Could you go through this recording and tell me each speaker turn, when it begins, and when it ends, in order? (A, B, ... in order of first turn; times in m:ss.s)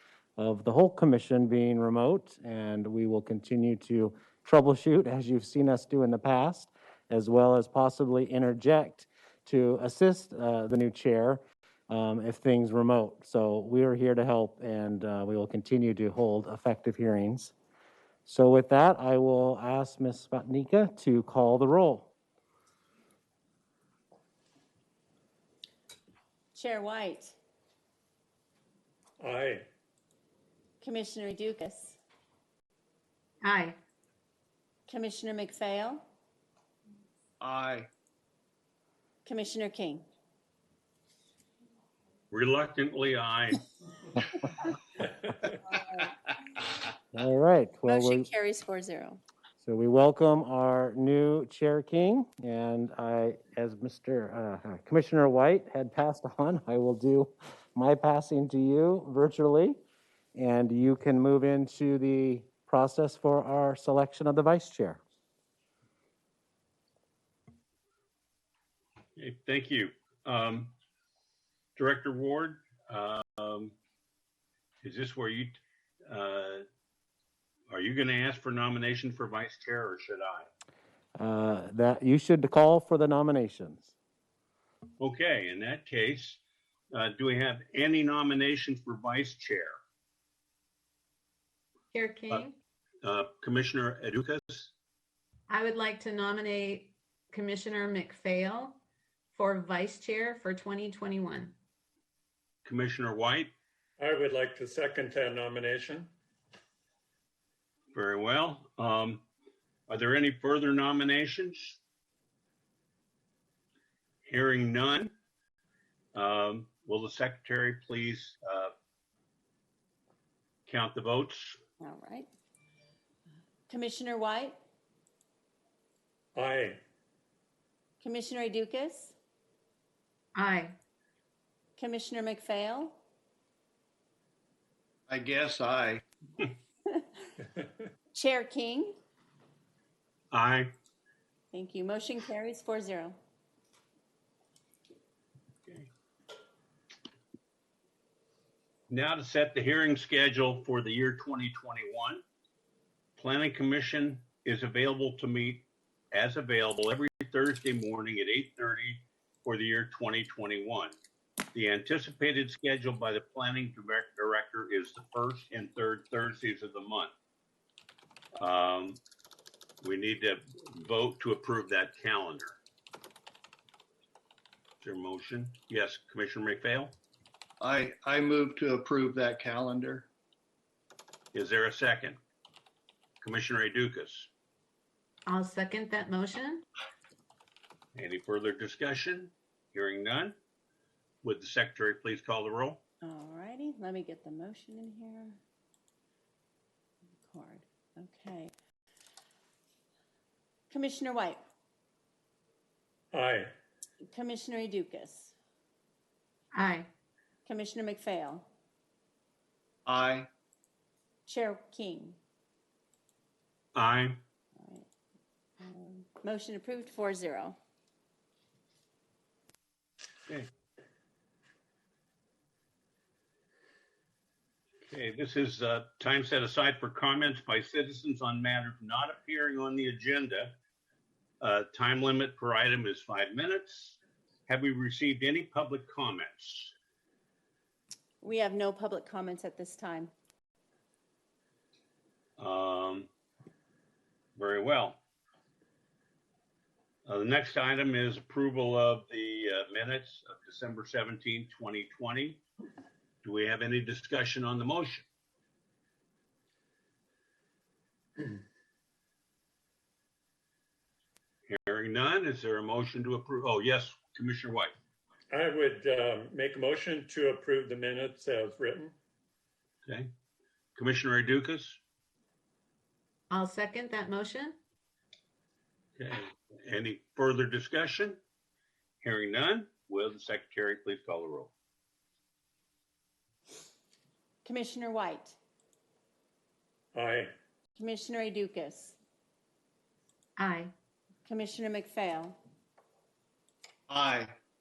0:00.4-0:17.5 A
0:18.2-0:22.1 A
0:26.5-0:27.3 B
0:29.2-0:29.6 C
0:30.8-0:32.0 B
0:33.4-0:33.8 D
0:34.9-0:36.0 B
0:37.4-0:37.9 E
0:39.2-0:40.0 B
0:42.3-0:43.6 F
0:47.1-0:48.3 A
0:47.9-0:49.2 B
0:49.6-0:59.8 A
1:00.3-1:05.0 A
1:09.2-1:10.7 F
1:11.8-1:13.7 F
1:14.8-1:15.6 F
1:16.1-1:16.6 F
1:17.7-1:20.5 F
1:21.2-1:23.9 A
1:25.0-1:26.4 F
1:26.9-1:29.8 F
1:31.9-1:32.6 D
1:33.0-1:34.7 F
1:35.5-1:38.8 D
1:39.3-1:41.5 D
1:42.6-1:43.5 F
1:44.0-1:46.1 C
1:47.9-1:49.2 F
1:49.9-1:51.8 F
1:54.3-1:55.1 F
1:56.1-1:58.7 F
2:00.7-2:01.6 F
2:01.8-2:02.3 B
2:03.7-2:04.6 B
2:06.3-2:06.8 C
2:08.0-2:09.1 B
2:10.3-2:10.8 D
2:11.8-2:13.0 B
2:15.1-2:16.0 E
2:18.1-2:18.9 B
2:20.3-2:20.7 F
2:21.5-2:23.2 B
2:28.9-2:32.2 F
2:33.2-2:41.0 F
2:41.5-2:47.1 F
2:48.4-2:49.0 F
2:49.8-2:52.6 F
2:54.8-2:57.0 F
2:57.6-3:00.1 E
3:01.3-3:02.2 F
3:03.2-3:04.3 F
3:05.3-3:06.6 D
3:08.0-3:10.3 F
3:11.2-3:12.8 F
3:13.0-3:15.4 B
3:17.3-3:18.5 B
3:20.7-3:21.4 B
3:23.1-3:23.5 C
3:24.1-3:25.3 B
3:26.5-3:26.9 D
3:27.4-3:28.4 B
3:29.8-3:30.3 E
3:31.2-3:32.2 B
3:33.8-3:34.2 F
3:34.6-3:34.9 B
3:35.6-3:37.6 B
3:44.9-3:50.5 F
3:51.4-3:56.7 F
3:58.2-4:00.1 B
4:02.4-4:03.1 F
4:04.4-4:05.0 F
4:07.1-4:12.4 F
4:13.2-4:15.0 F
4:21.5-4:24.7 F
4:25.3-4:28.9 C
4:30.8-4:31.8 F
4:33.3-4:34.6 D
4:36.0-4:38.2 F
4:39.0-4:41.5 F
4:44.4-4:45.4 B
4:46.9-4:47.3 C
4:47.8-4:49.0 B
4:50.4-4:50.7 D
4:51.2-4:52.4 B
4:53.9-4:54.3 E